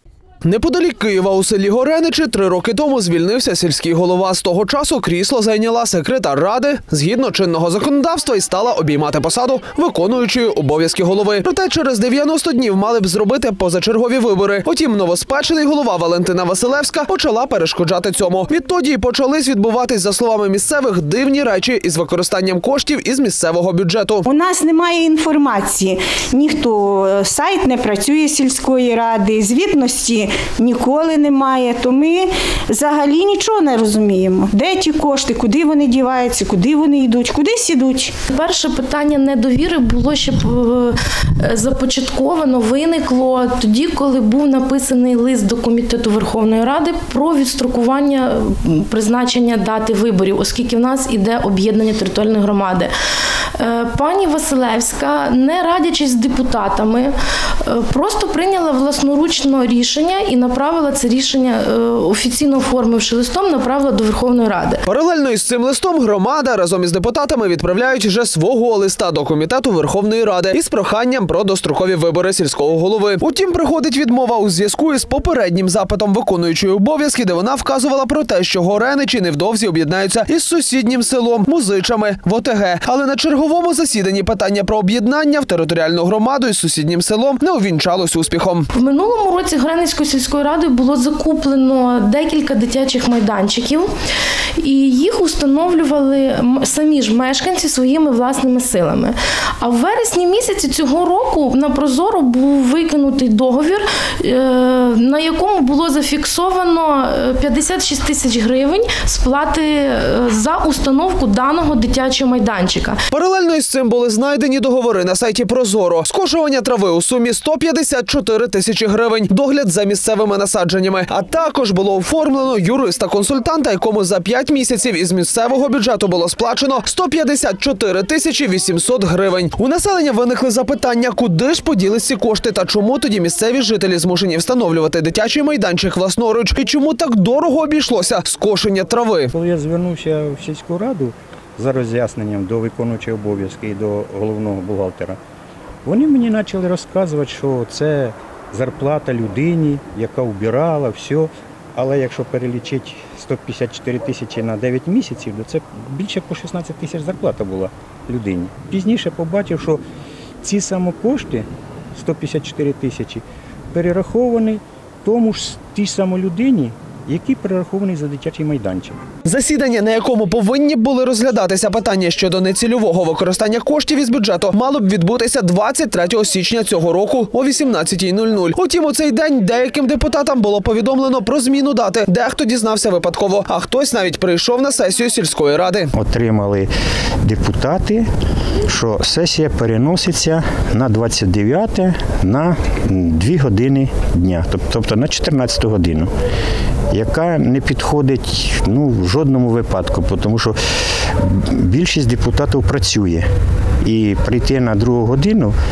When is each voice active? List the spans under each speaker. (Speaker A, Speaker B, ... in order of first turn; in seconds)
Speaker A: 0.5-24.2, 64.8-88.7, 113.1-139.3, 169.2-185.9
Speaker B: 24.2-38.1
Speaker C: 38.3-52.9, 53.5-64.8, 88.7-93.9, 94.6-113.0
Speaker D: 139.3-145.2, 145.8-159.8, 160.4-163.2, 163.7-169.0, 185.9-186.7, 187.2-188.1, 188.7-196.1, 196.9-200.6, 201.2-203.2, 203.8-205.5